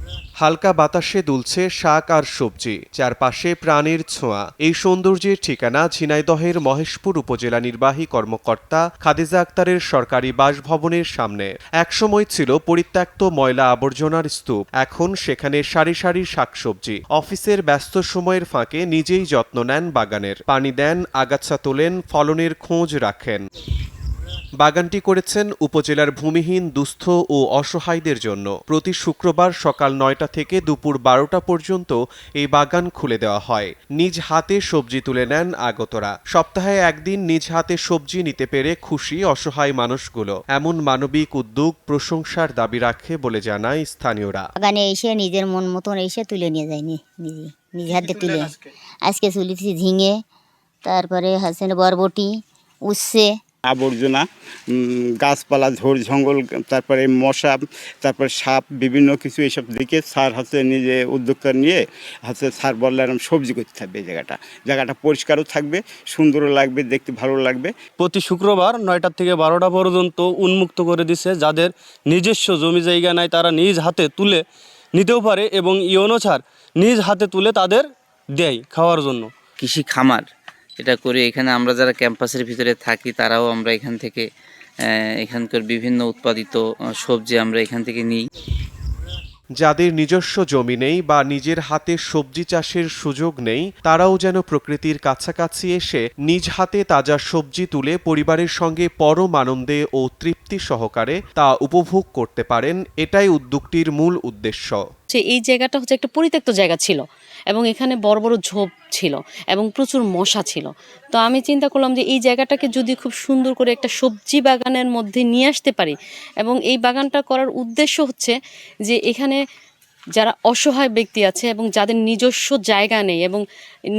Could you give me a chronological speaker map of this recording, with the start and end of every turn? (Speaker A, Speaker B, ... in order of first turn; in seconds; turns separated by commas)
Speaker A: 0.4-23.4, Speaker A: 24.6-44.5, Speaker B: 44.6-48.5, Speaker B: 49.0-50.2, Speaker B: 50.8-52.4, Speaker B: 52.9-53.3, Speaker C: 53.7-67.7, Speaker D: 68.0-74.4, Speaker D: 74.9-79.3, Speaker E: 79.6-80.2, Speaker E: 80.8-84.2, Speaker E: 84.8-88.2, Speaker A: 89.6-104.8, Speaker F: 105.1-119.4, Speaker F: 120.2-123.4